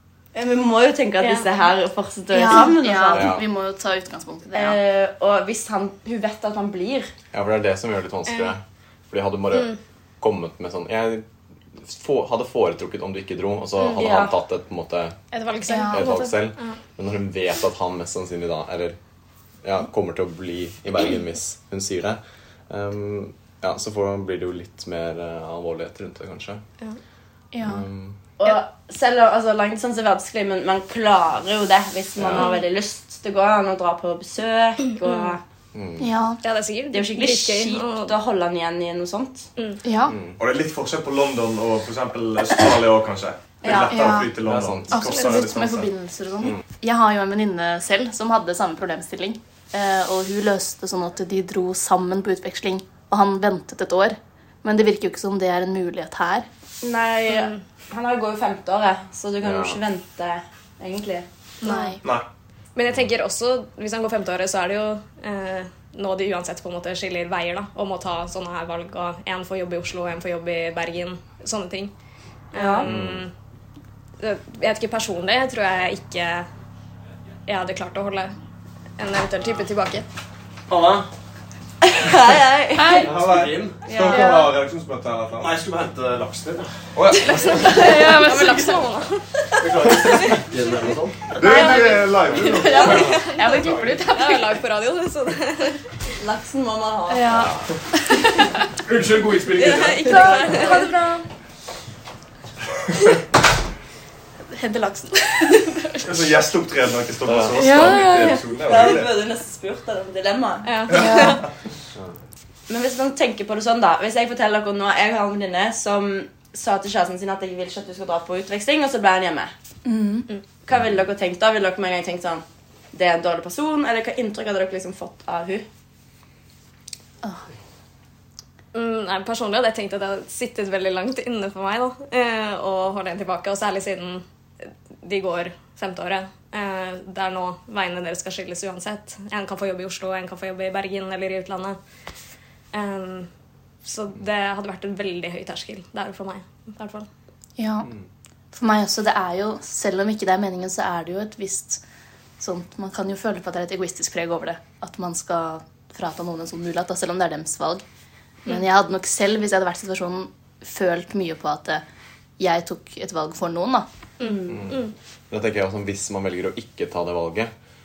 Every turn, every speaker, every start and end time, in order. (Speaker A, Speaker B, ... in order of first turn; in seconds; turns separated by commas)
Speaker A: 0.3-3.4, Speaker B: 1.2-1.5, Speaker C: 2.3-4.8, Speaker D: 3.1-3.5, Speaker A: 4.5-7.1, Speaker D: 7.3-15.2, Speaker B: 8.3-8.5, Speaker B: 13.8-14.1, Speaker A: 14.0-14.3, Speaker B: 15.3-16.8, Speaker C: 15.7-16.1, Speaker D: 15.9-19.0, Speaker D: 19.6-26.6, Speaker C: 27.5-27.9, Speaker D: 27.6-28.2, Speaker A: 28.4-35.4, Speaker D: 32.2-32.5, Speaker B: 35.0-35.4, Speaker D: 35.7-36.1, Speaker C: 36.0-36.4, Speaker B: 36.4-38.1, Speaker A: 36.9-39.5, Speaker C: 39.8-40.2, Speaker D: 40.1-40.4, Speaker E: 40.4-45.9, Speaker A: 43.6-44.0, Speaker C: 43.9-44.4, Speaker D: 44.4-45.5, Speaker C: 44.9-56.5, Speaker A: 56.8-61.3, Speaker B: 57.3-57.6, Speaker D: 59.4-59.8, Speaker B: 61.6-62.0, Speaker C: 61.6-62.0, Speaker B: 62.8-71.9, Speaker B: 72.5-73.3, Speaker A: 72.5-72.9, Speaker D: 72.8-73.3, Speaker B: 74.2-76.5, Speaker B: 77.5-78.3, Speaker B: 79.0-80.1, Speaker F: 80.7-81.0, Speaker A: 81.8-83.1, Speaker C: 82.8-83.2, Speaker E: 83.0-85.7, Speaker F: 83.1-83.8, Speaker A: 83.9-84.4, Speaker C: 84.1-84.5, Speaker F: 85.5-86.7, Speaker E: 87.0-87.8, Speaker B: 87.1-90.4, Speaker C: 87.5-88.9, Speaker F: 89.6-91.1, Speaker E: 89.8-90.4, Speaker E: 91.3-93.2, Speaker B: 91.4-95.8, Speaker C: 91.4-94.6, Speaker A: 96.2-97.5, Speaker C: 97.1-98.7, Speaker F: 98.9-100.0, Speaker D: 98.9-100.0, Speaker B: 99.4-101.0, Speaker C: 100.0-101.3, Speaker A: 100.2-100.8, Speaker C: 104.5-106.2, Speaker E: 106.0-109.1, Speaker D: 107.3-107.9, Speaker C: 107.6-108.4, Speaker A: 108.1-110.9, Speaker B: 110.7-111.5, Speaker C: 110.9-111.4, Speaker A: 112.7-119.5, Speaker C: 119.8-120.3, Speaker A: 120.7-125.7, Speaker D: 120.7-121.0, Speaker B: 128.7-141.8, Speaker B: 142.7-143.3, Speaker B: 143.8-147.1, Speaker C: 147.6-147.9, Speaker C: 148.5-151.8, Speaker C: 152.4-157.8, Speaker C: 158.5-161.8, Speaker C: 162.4-163.9, Speaker B: 164.2-164.9, Speaker A: 164.2-164.6, Speaker D: 164.5-167.5